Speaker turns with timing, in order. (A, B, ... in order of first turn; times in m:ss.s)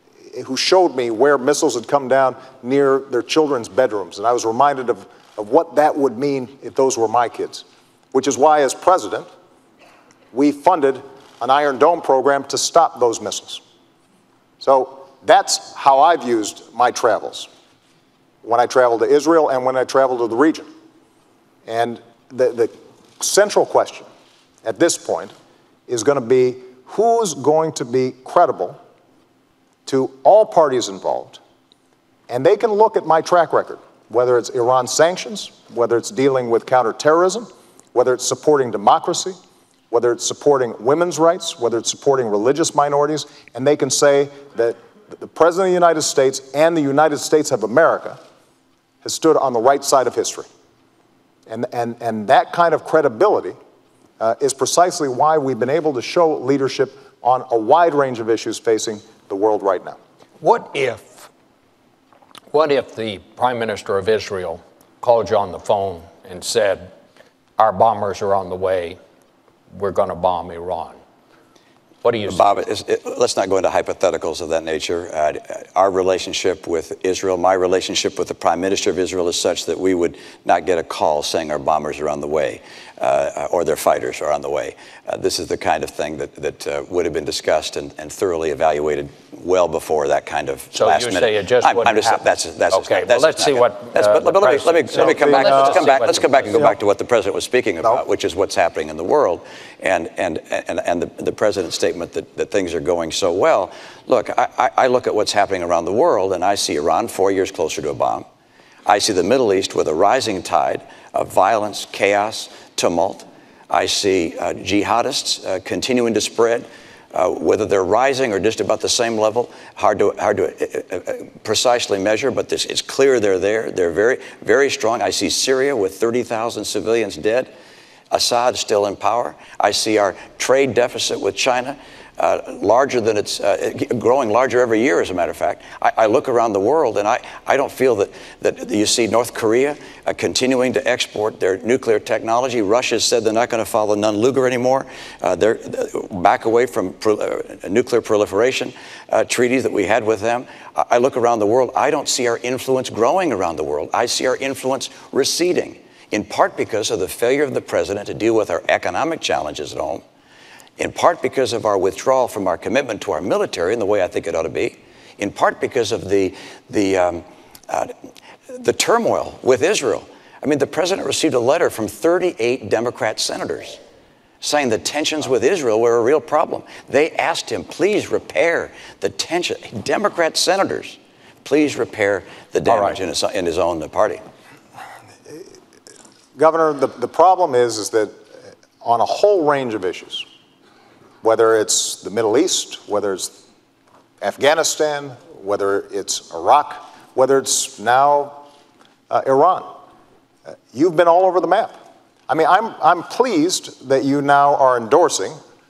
0:00.3-0:09.3 A
0:10.3-0:13.6 A
0:14.6-0:17.5 A
0:18.4-0:20.7 A
0:21.6-0:24.1 A
0:24.6-0:25.3 A
0:25.9-0:28.8 A
0:29.8-0:31.4 A
0:32.3-0:39.4 A
0:39.9-0:48.2 A
0:49.0-0:50.4 A
0:51.5-0:53.6 A
0:54.2-1:00.0 A
1:00.4-1:01.3 B
1:02.5-1:06.9 B
1:07.6-1:09.0 B
1:09.7-1:11.0 B
1:12.0-1:12.6 B
1:12.2-1:48.2 C
1:30.7-1:36.7 B
1:35.0-1:35.8 A
1:48.8-2:07.5 C
2:08.1-2:40.0 C
2:40.8-2:47.9 C
2:48.5-2:53.8 C
2:54.4-3:04.2 C
3:02.7-3:03.0 B
3:06.4-3:08.1 A
3:08.8-3:10.2 A
3:11.2-3:13.3 A
3:14.2-3:18.4 A
3:19.1-3:19.7 A
3:20.7-3:21.7 A
3:22.3-3:25.4 A